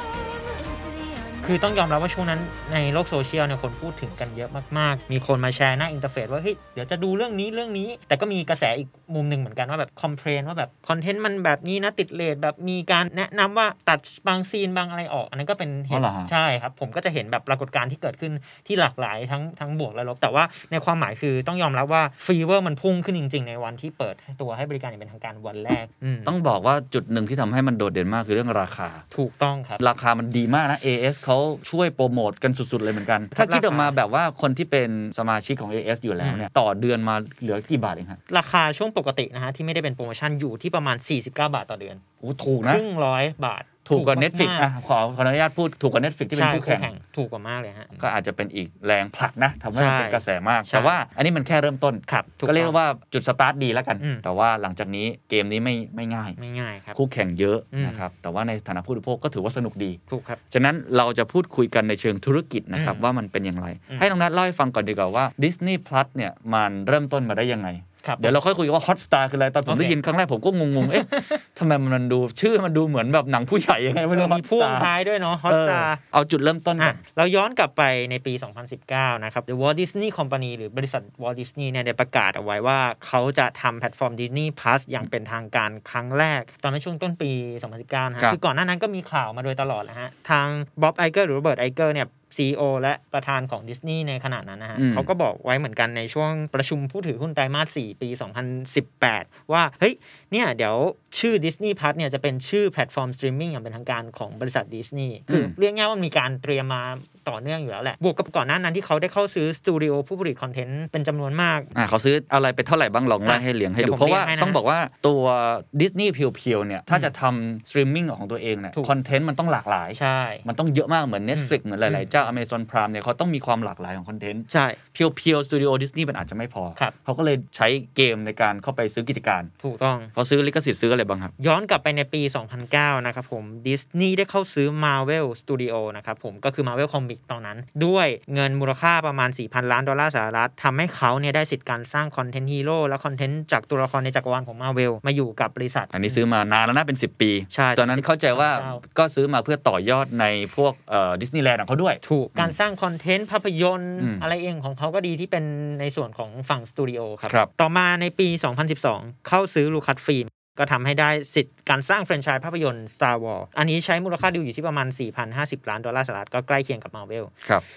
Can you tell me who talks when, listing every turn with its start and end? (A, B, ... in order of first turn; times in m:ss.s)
0:01.4-0:26.3 A
0:15.9-0:16.3 B
0:26.3-0:29.0 B
0:29.1-0:29.8 A
0:29.8-0:38.2 B
0:33.3-0:34.0 A
0:36.2-0:36.5 A
0:38.3-0:42.0 A
0:42.2-0:42.8 B
0:42.6-0:44.7 A
0:43.9-0:46.9 B
0:46.3-0:48.0 A
0:48.0-0:56.4 B
0:49.8-0:51.0 A
0:52.1-0:52.8 A
0:56.4-0:57.0 A
0:57.0-1:14.9 B
0:57.7-0:58.0 A
1:00.1-1:00.4 A
1:02.7-1:03.0 A
1:08.0-1:08.4 A
1:09.7-1:10.0 A
1:10.8-1:11.4 A
1:14.1-1:16.0 A
1:15.5-1:17.0 B
1:16.8-1:51.7 A
1:34.8-1:35.1 B
1:45.3-1:45.5 B
1:51.8-2:09.5 B
1:53.3-1:54.6 A
1:59.9-2:00.5 A
2:01.3-2:02.3 A
2:04.5-2:04.8 A
2:09.6-2:10.1 A
2:10.2-2:11.3 B
2:11.4-2:26.2 A
2:25.9-2:32.6 B
2:27.5-2:28.8 A
2:32.0-2:47.3 A
2:34.0-2:34.2 B